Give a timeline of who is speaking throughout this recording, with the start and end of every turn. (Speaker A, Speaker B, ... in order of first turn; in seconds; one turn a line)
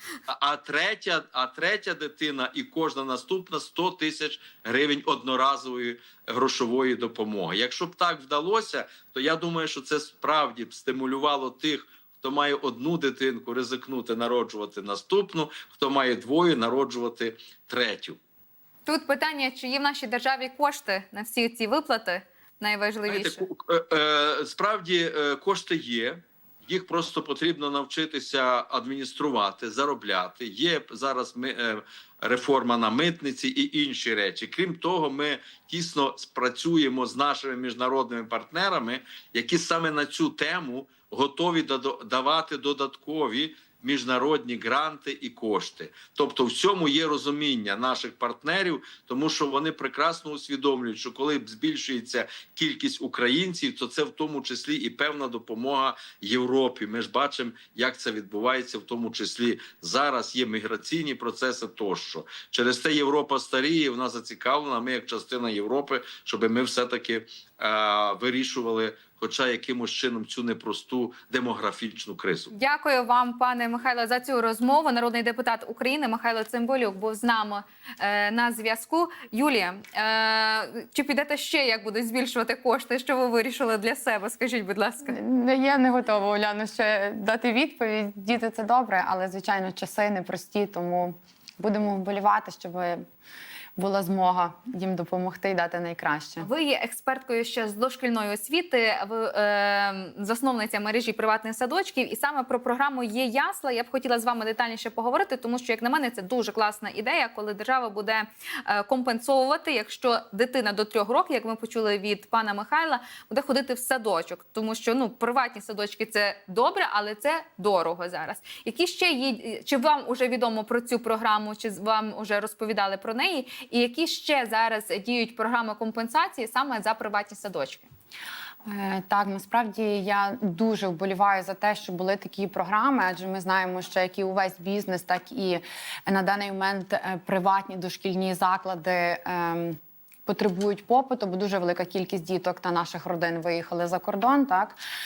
Speaker A: 0.3-18.2
Speaker B: 18.9-23.4
Speaker A: 23.1-72.5
Speaker B: 72.5-85.2
Speaker C: 85.0-93.0
Speaker C: 93.8-96.5
Speaker B: 96.4-127.9
Speaker C: 128.7-144.8